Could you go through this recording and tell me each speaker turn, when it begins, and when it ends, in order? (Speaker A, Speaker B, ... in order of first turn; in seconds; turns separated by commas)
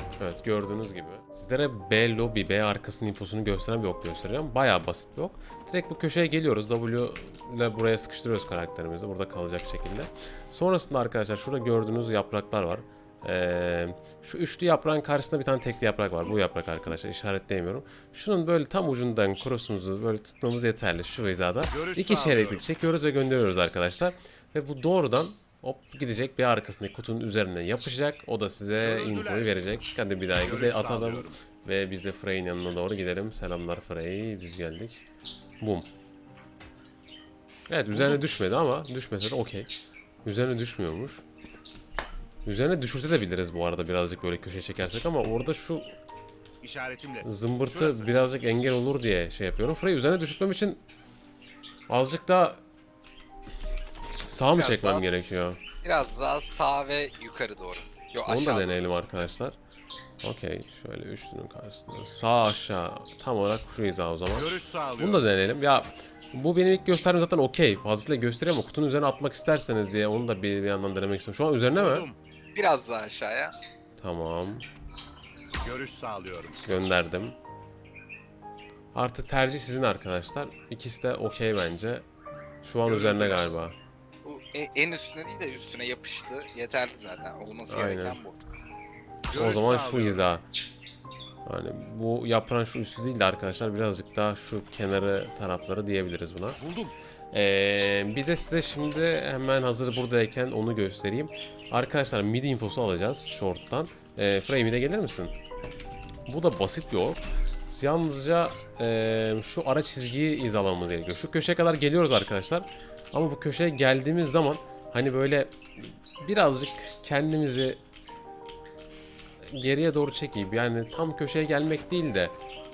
Speaker A: 0.2-35.1, Speaker B: 21.7-22.7, Speaker B: 28.8-29.6, Speaker B: 30.4-31.4, Speaker A: 35.6-35.9, Speaker A: 37.7-39.7, Speaker A: 40.2-41.2, Speaker A: 42.4-46.0, Speaker B: 46.6-48.1, Speaker A: 47.2-50.8, Speaker A: 51.9-52.6, Speaker A: 54.2-55.6, Speaker C: 54.5-59.2, Speaker A: 58.2-59.6, Speaker A: 60.2-72.1, Speaker B: 64.3-65.2, Speaker B: 71.8-72.2, Speaker C: 72.5-73.5, Speaker A: 74.0-74.7, Speaker B: 75.6-76.6, Speaker A: 76.6-77.4, Speaker A: 78.9-82.0, Speaker A: 82.6-83.8, Speaker B: 82.8-83.5, Speaker C: 84.2-88.4, Speaker A: 87.7-88.2, Speaker B: 89.3-90.2, Speaker A: 89.3-90.5, Speaker A: 91.4-96.6, Speaker B: 96.6-96.9, Speaker A: 97.3-105.3, Speaker A: 106.3-117.8, Speaker A: 119.4-122.3